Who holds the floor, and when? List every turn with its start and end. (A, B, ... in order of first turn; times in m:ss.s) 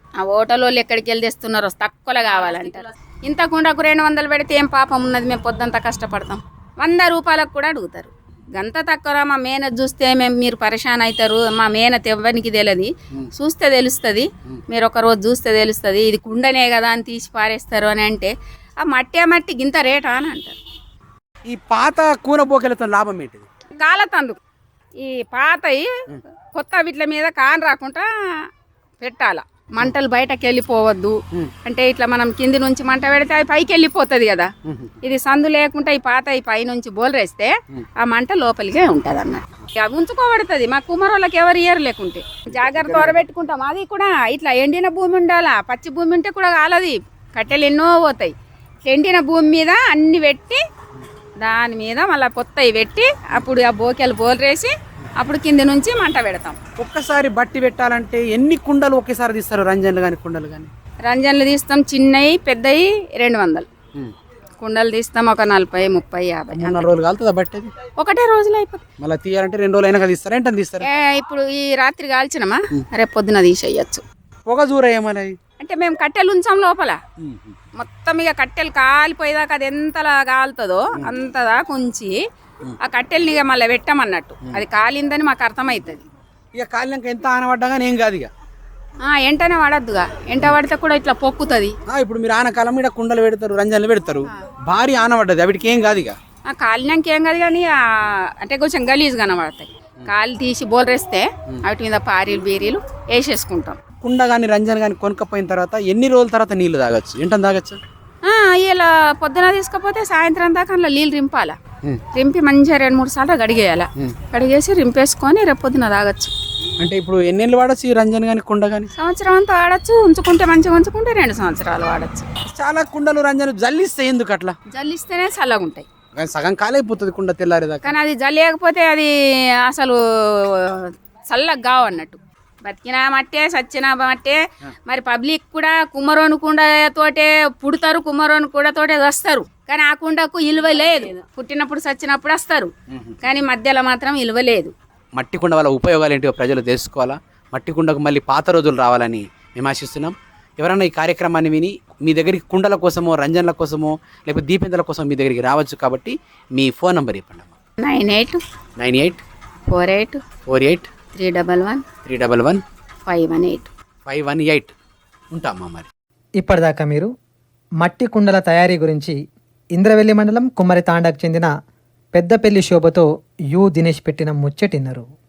0:00.2-0:18.3 A
0:18.8-0:20.6 A
0:21.5-0:23.5 B
0:23.7-0:24.4 A
0:25.0-0:25.9 A
0:26.5-0:28.1 A
0:29.0-0:34.5 A
0:34.6-0:35.0 B
0:35.0-0:48.3 A
0:42.5-0:43.2 B
0:48.8-0:50.6 A
0:51.4-0:56.6 A
0:56.8-1:00.7 B
1:01.0-1:03.7 A
1:04.6-1:06.9 A
1:06.5-1:07.7 B
1:08.0-1:08.8 A
1:09.0-1:10.9 B
1:10.8-1:14.0 A
1:14.5-1:15.4 B
1:15.6-1:17.0 A
1:17.2-1:17.5 B
1:17.8-1:22.1 A
1:22.8-1:26.0 A
1:26.6-1:28.3 B
1:29.0-1:31.7 A
1:31.9-1:36.2 B
1:36.5-1:43.8 A
1:44.0-1:47.8 B
1:48.2-1:51.6 A
1:52.1-1:56.3 A
1:56.8-1:58.9 B
1:58.9-2:02.2 A
2:02.5-2:04.6 B
2:04.7-2:05.8 A
2:06.2-2:07.9 B
2:07.8-2:09.1 A
2:09.6-2:22.7 A
2:23.2-2:24.7 A
2:25.2-2:37.5 B
2:37.8-2:38.4 A
2:38.8-2:39.2 B
2:39.7-2:40.2 A
2:40.5-2:40.9 B
2:41.1-2:41.8 A
2:42.0-2:42.6 B
2:43.0-2:43.7 A
2:44.0-2:44.7 B
2:45.3-2:45.9 B
2:46.4-2:47.1 C
2:47.8-2:49.1 C
2:49.7-2:51.5 C
2:52.1-2:55.0 C